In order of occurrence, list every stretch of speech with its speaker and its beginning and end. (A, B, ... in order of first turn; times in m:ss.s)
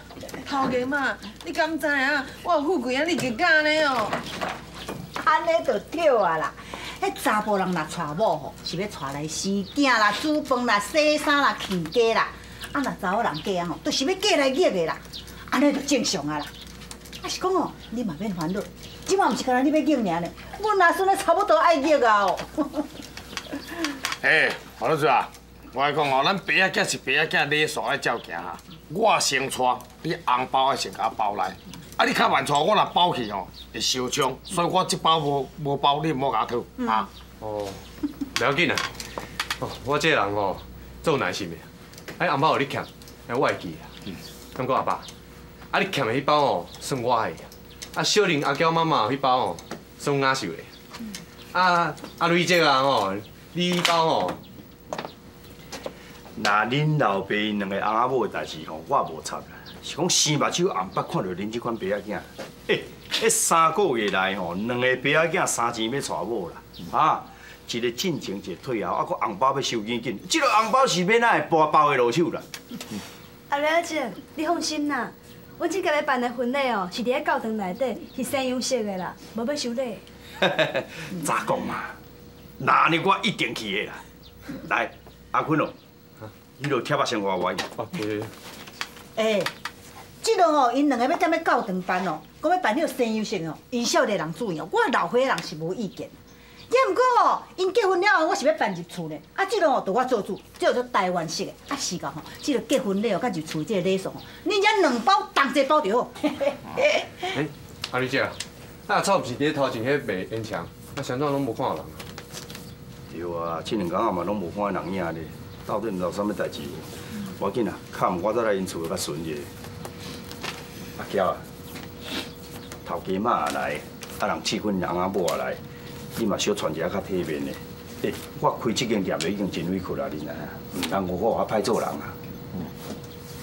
0:00.4-0:04.2 A
0:05.2-0:16.5 B
0:17.2-0:22.8 B
0:24.2-0:37.1 C
0:37.4-0:37.8 D
0:38.4-0:38.9 D
0:39.6-0:41.7 D
0:42.2-0:43.9 D
0:44.6-0:45.0 D
0:45.7-0:50.7 D
0:51.5-0:54.4 D
0:56.4-1:12.4 E
1:13.5-1:20.0 F
1:20.4-1:21.9 E
1:22.6-1:24.0 E
1:24.5-1:25.7 E
1:26.6-1:27.7 E
1:27.8-1:28.3 D
1:29.2-1:29.5 B
1:30.2-1:36.2 B
1:36.7-1:46.5 B
1:47.3-1:52.0 D
1:53.1-1:59.5 E
2:01.0-2:01.4 E
2:02.8-2:05.6 E
2:06.1-2:12.1 E